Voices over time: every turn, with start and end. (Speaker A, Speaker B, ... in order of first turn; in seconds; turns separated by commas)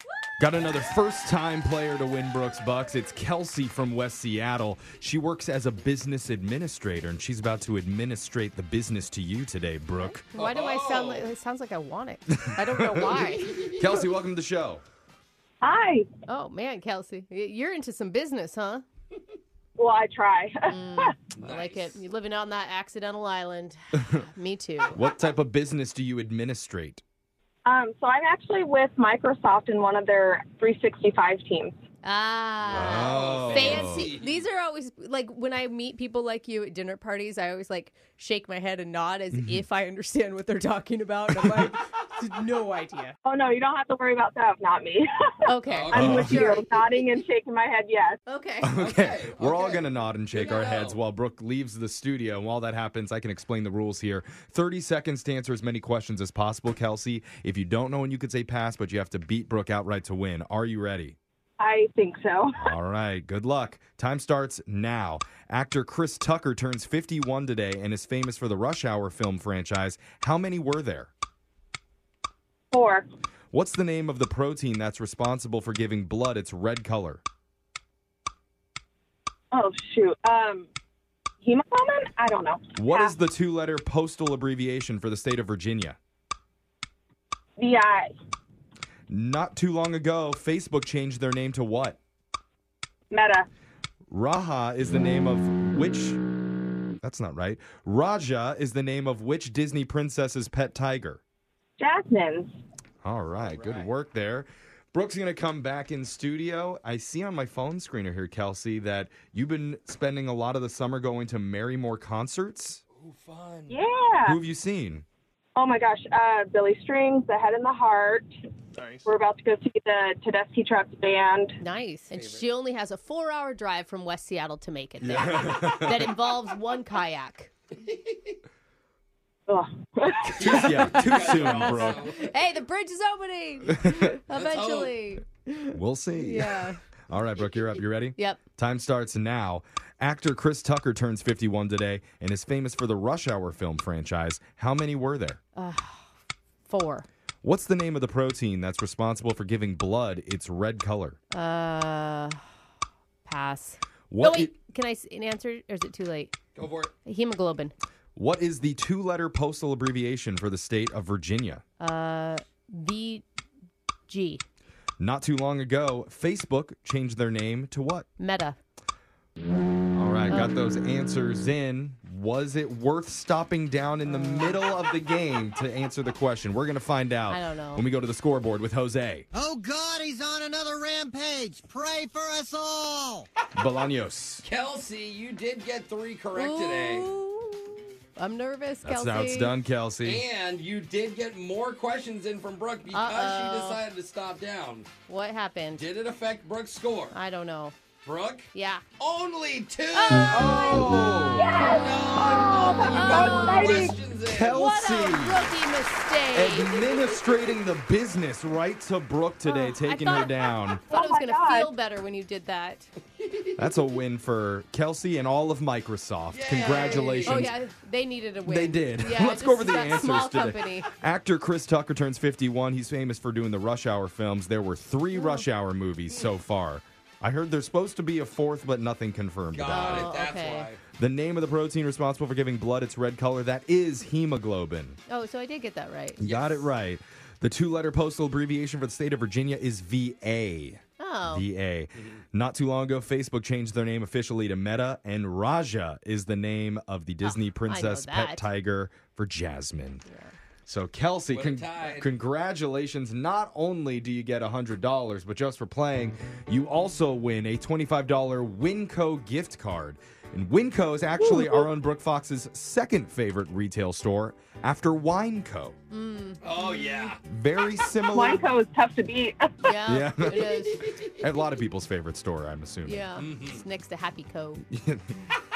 Speaker A: 0.4-10.3, Speaker B: 10.0-13.7, Speaker C: 10.3-11.3, Speaker A: 12.4-14.8, Speaker D: 15.6-16.1, Speaker B: 16.3-18.8, Speaker D: 19.8-21.1, Speaker B: 20.7-25.0, Speaker C: 21.4-22.0, Speaker A: 24.9-27.0, Speaker D: 27.6-31.7, Speaker B: 32.0-43.1, Speaker C: 32.6-34.4, Speaker A: 32.7-34.1, Speaker A: 39.3-39.6, Speaker A: 41.3-41.7, Speaker D: 43.2-45.1, Speaker B: 45.5-46.6, Speaker C: 45.7-46.5, Speaker D: 45.9-48.2, Speaker A: 45.9-46.5, Speaker B: 48.3-48.7, Speaker A: 48.6-61.1, Speaker C: 48.8-51.0, Speaker D: 61.6-62.7, Speaker A: 62.5-71.1, Speaker D: 72.7-73.0, Speaker A: 73.5-77.2, Speaker D: 79.5-80.7, Speaker D: 81.4-83.1, Speaker A: 82.8-86.0, Speaker D: 87.6-88.1, Speaker A: 89.1-92.0, Speaker D: 93.1-93.5, Speaker A: 94.1-96.2, Speaker A: 97.0-101.2, Speaker D: 101.8-102.5, Speaker A: 103.0-112.8, Speaker C: 103.4-103.9, Speaker C: 112.9-113.8, Speaker D: 113.7-114.4, Speaker A: 114.2-115.0, Speaker D: 115.5-118.3, Speaker D: 119.0-121.6, Speaker B: 121.6-127.5, Speaker C: 122.1-122.4, Speaker A: 125.0-126.1, Speaker D: 129.5-130.9, Speaker C: 130.4-132.2, Speaker A: 130.4-132.1, Speaker B: 131.2-136.8, Speaker C: 134.3-134.9, Speaker A: 135.7-145.4, Speaker B: 145.6-146.0, Speaker B: 146.7-147.1, Speaker A: 147.4-151.2, Speaker B: 151.3-152.4, Speaker B: 153.2-156.3, Speaker A: 154.1-154.5, Speaker C: 156.5-156.9, Speaker B: 157.0-157.7, Speaker A: 158.2-161.6, Speaker B: 161.8-163.2, Speaker B: 164.1-164.4, Speaker A: 165.0-168.1, Speaker B: 168.2-168.6, Speaker A: 169.9-179.3, Speaker B: 170.3-170.5, Speaker B: 174.1-174.6, Speaker B: 177.3-177.8, Speaker E: 179.3-183.3, Speaker A: 183.5-184.4, Speaker C: 184.4-187.1, Speaker B: 186.3-189.5, Speaker A: 188.8-190.2, Speaker C: 190.0-194.9, Speaker B: 192.9-193.8, Speaker B: 195.1-195.9, Speaker C: 195.7-197.1, Speaker B: 197.1-197.7, Speaker C: 198.0-198.5, Speaker B: 198.5-198.8, Speaker C: 199.0-200.8, Speaker B: 199.9-201.3, Speaker A: 200.3-201.6, Speaker D: 200.8-204.0, Speaker C: 201.5-204.6, Speaker B: 202.8-203.9, Speaker A: 204.2-205.5, Speaker B: 204.5-206.8, Speaker A: 206.3-210.8, Speaker B: 209.4-212.9, Speaker D: 210.9-211.7, Speaker A: 213.6-217.5, Speaker C: 216.3-217.5, Speaker B: 216.5-220.9, Speaker A: 218.4-230.1, Speaker B: 225.1-225.4, Speaker C: 229.5-230.8, Speaker B: 229.7-230.7, Speaker A: 231.0-235.0, Speaker B: 235.1-236.2, Speaker A: 236.2-250.0, Speaker C: 236.2-236.7, Speaker B: 241.0-241.5, Speaker C: 241.9-242.2, Speaker B: 247.2-248.5, Speaker B: 250.1-250.3, Speaker A: 250.7-265.7, Speaker C: 251.3-252.1, Speaker D: 261.3-261.6, Speaker B: 265.9-267.1, Speaker C: 266.4-267.2, Speaker A: 267.3-268.4, Speaker D: 268.1-269.5, Speaker B: 269.6-270.8, Speaker A: 269.9-273.0, Speaker B: 272.8-274.6, Speaker C: 273.1-273.6, Speaker A: 274.7-275.2